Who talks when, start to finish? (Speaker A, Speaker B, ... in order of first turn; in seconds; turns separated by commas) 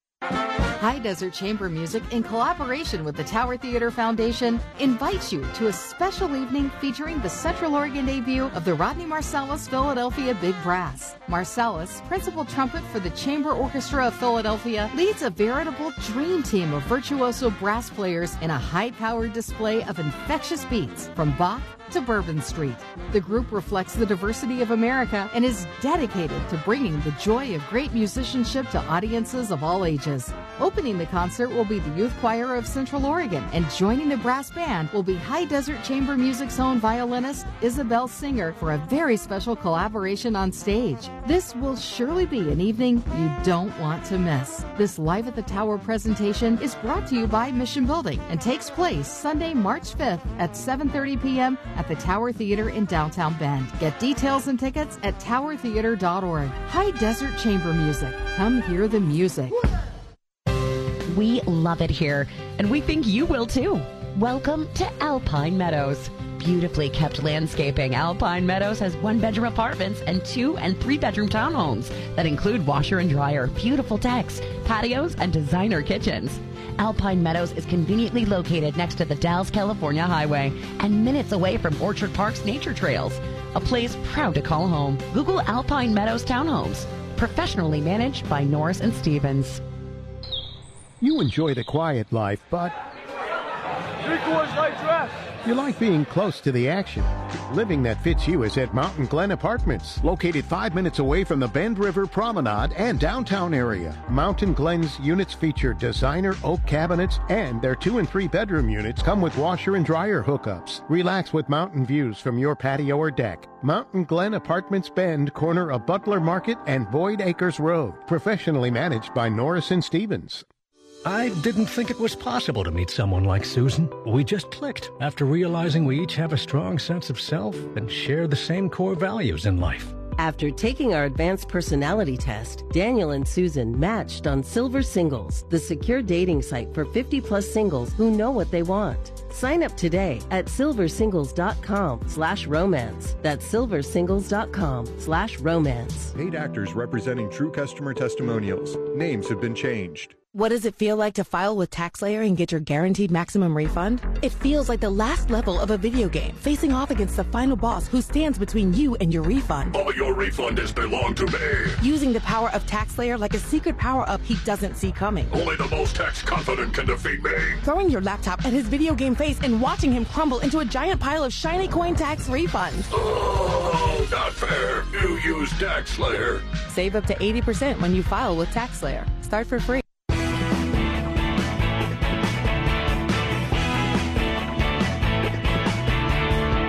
Speaker A: 0.8-59.6, Speaker B: 61.1-89.6, Speaker C: 91.0-92.7, Speaker C: 94.1-120.5, Speaker D: 121.0-130.0, Speaker E: 130.2-146.1, Speaker F: 146.2-150.1, Speaker G: 150.3-159.7, Speaker H: 159.7-161.8, Speaker G: 161.8-165.3, Speaker H: 165.3-167.6, Speaker G: 167.6-172.9, Speaker H: 172.9-176.5, Speaker G: 176.7-179.8